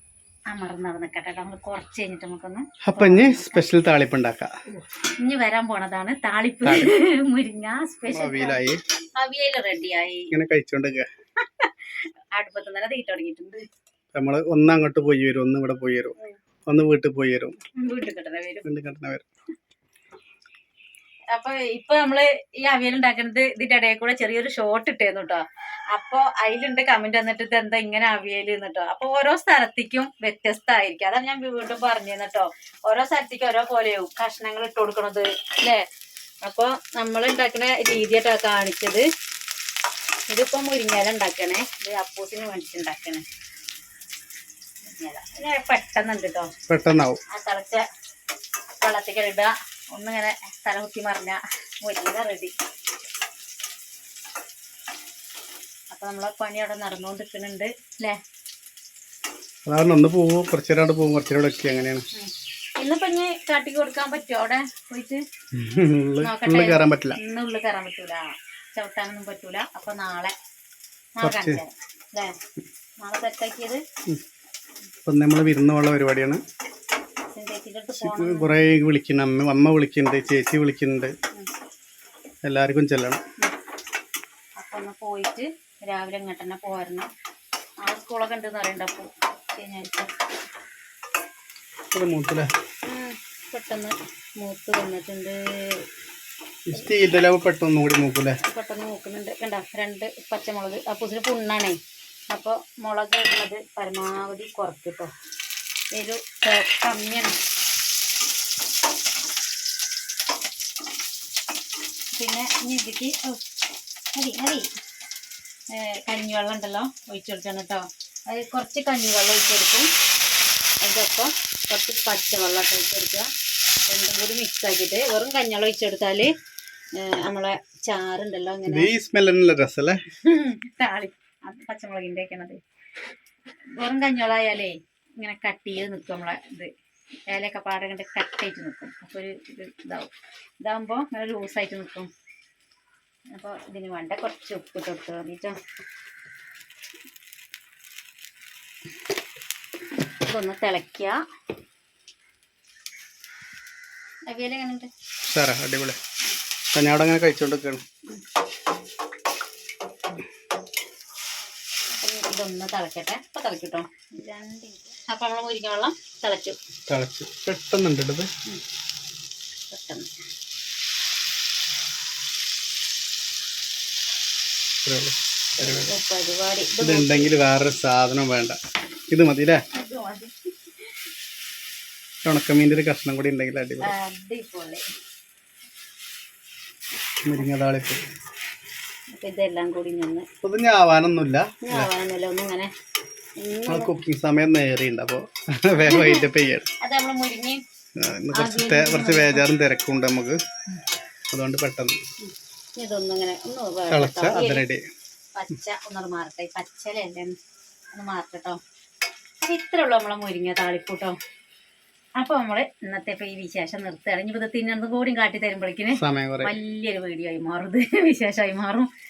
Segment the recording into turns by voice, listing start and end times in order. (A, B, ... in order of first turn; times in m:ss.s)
0:00.5-0:03.6 A
0:02.8-0:04.6 B
0:05.2-0:08.6 A
0:06.6-0:06.9 B
0:08.1-0:08.8 B
0:09.1-0:10.3 A
0:10.3-0:11.1 B
0:11.4-0:13.6 A
0:14.1-0:16.1 B
0:16.7-0:17.6 B
0:17.8-0:18.7 A
0:18.6-0:19.2 B
0:21.3-0:35.8 A
0:36.4-0:39.0 A
0:40.3-0:43.2 A
0:44.8-0:46.5 A
0:46.7-0:47.2 B
0:47.3-0:47.8 A
0:48.8-0:52.5 A
0:55.9-0:58.2 A
0:59.6-1:02.0 B
1:02.1-1:05.2 A
1:05.5-1:07.2 B
1:06.2-1:10.3 A
1:11.2-1:12.4 A
1:11.2-1:11.6 B
1:13.0-1:13.8 A
1:15.0-1:16.4 B
1:17.3-1:18.5 A
1:18.0-1:21.2 B
1:22.4-1:23.2 B
1:24.6-1:27.1 A
1:27.8-1:30.1 A
1:31.9-1:32.5 B
1:32.8-1:35.8 A
1:36.7-1:38.4 B
1:38.4-1:41.8 A
1:42.3-1:45.1 A
1:45.9-1:47.3 A
1:52.2-1:53.4 A
1:54.1-1:54.7 A
1:55.7-1:59.9 A
2:00.8-2:03.3 A
2:03.8-2:06.3 A
2:07.0-2:08.9 A
2:08.7-2:10.0 B
2:10.2-2:12.6 A
2:13.8-2:16.7 A
2:17.3-2:22.1 A
2:23.3-2:25.6 A
2:30.2-2:31.2 A
2:34.3-2:34.9 A
2:35.2-2:36.0 B
2:36.7-2:37.8 B
2:41.9-2:46.6 A
2:46.9-2:48.3 B
2:49.7-2:50.1 A
2:54.8-2:55.9 B
2:55.6-2:57.3 A
2:56.8-2:58.6 B
2:59.1-2:59.6 B
2:59.7-3:00.4 A
3:02.2-3:03.9 B
3:03.8-3:04.8 A
3:07.2-3:08.0 B
3:09.1-3:10.2 A
3:10.4-3:11.9 B
3:11.6-3:12.7 A
3:13.4-3:13.9 A
3:13.7-3:16.7 B
3:15.7-3:16.3 A
3:16.8-3:17.6 A
3:18.0-3:20.4 B
3:18.3-3:19.5 A
3:21.3-3:22.0 B
3:22.2-3:24.7 A
3:23.9-3:24.8 B
3:25.3-3:27.4 A
3:27.9-3:28.6 A
3:29.4-3:31.2 A
3:32.2-3:38.9 A
3:36.0-3:36.6 B